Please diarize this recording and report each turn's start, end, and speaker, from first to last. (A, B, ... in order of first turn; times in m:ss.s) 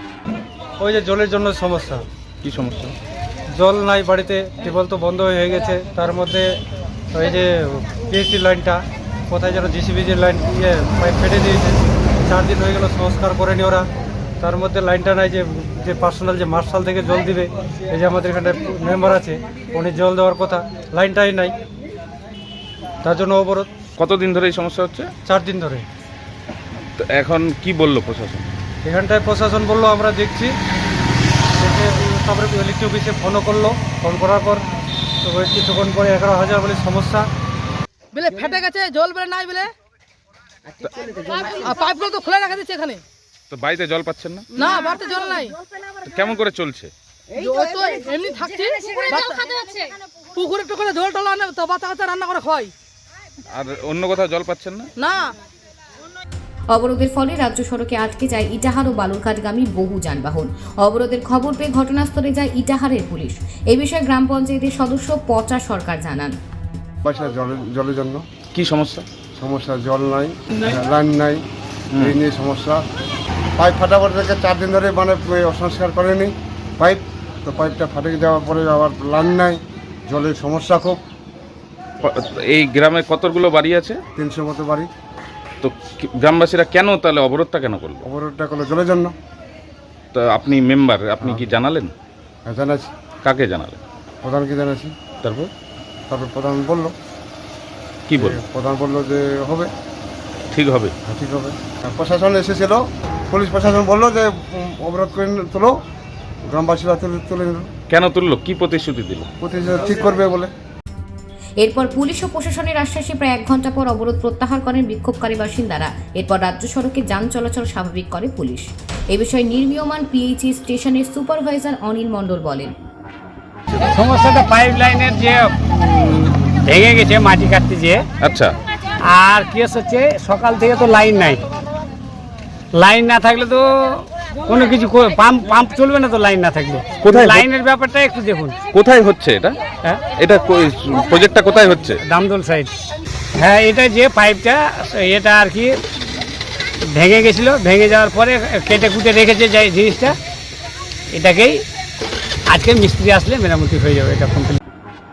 0:00.8-0:02.0 A
0:02.4-0:03.0 B
0:03.6-0:06.4 A
0:07.2-0:08.8 A
0:09.3-0:13.8 A
0:14.4-0:21.5 A
0:23.0-0:23.7 A
0:24.0-0:25.1 B
0:25.3-0:25.8 A
0:27.0-0:28.5 B
0:28.8-0:30.5 A
0:31.6-0:34.6 A
0:35.2-0:37.2 A
0:38.1-0:39.7 C
0:40.8-0:41.2 B
0:41.4-0:43.0 C
0:43.5-0:44.6 B
0:44.6-0:45.6 C
0:46.0-0:46.9 B
0:47.4-0:52.7 C
0:53.5-0:54.9 B
0:55.0-0:55.3 C
0:56.7-1:06.3 D
1:07.0-1:08.2 E
1:08.5-1:09.1 B
1:09.4-1:11.4 E
1:11.9-1:12.2 B
1:12.0-1:12.8 E
1:13.6-1:21.0 E
1:22.0-1:24.0 B
1:24.2-1:24.9 E
1:25.6-1:28.0 B
1:28.0-1:29.1 E
1:30.1-1:31.9 B
1:32.4-1:32.9 E
1:33.2-1:33.8 B
1:34.2-1:34.9 E
1:35.2-1:35.5 B
1:36.1-1:36.9 E
1:38.1-1:38.4 B
1:38.2-1:39.7 E
1:40.5-1:40.9 B
1:41.0-1:45.8 E
1:46.4-1:47.7 E
1:47.9-1:49.3 B
1:49.4-1:50.5 E
1:51.6-2:02.7 D
2:03.7-2:08.1 F
2:08.2-2:08.5 B
2:09.0-2:11.4 F
2:12.7-2:18.6 F
2:17.0-2:17.4 B
2:18.7-2:19.6 B
2:20.2-2:22.0 B
2:22.0-2:22.7 F
2:23.3-2:25.8 F
2:26.8-2:30.2 F
2:31.1-2:31.6 F
2:32.5-2:34.6 F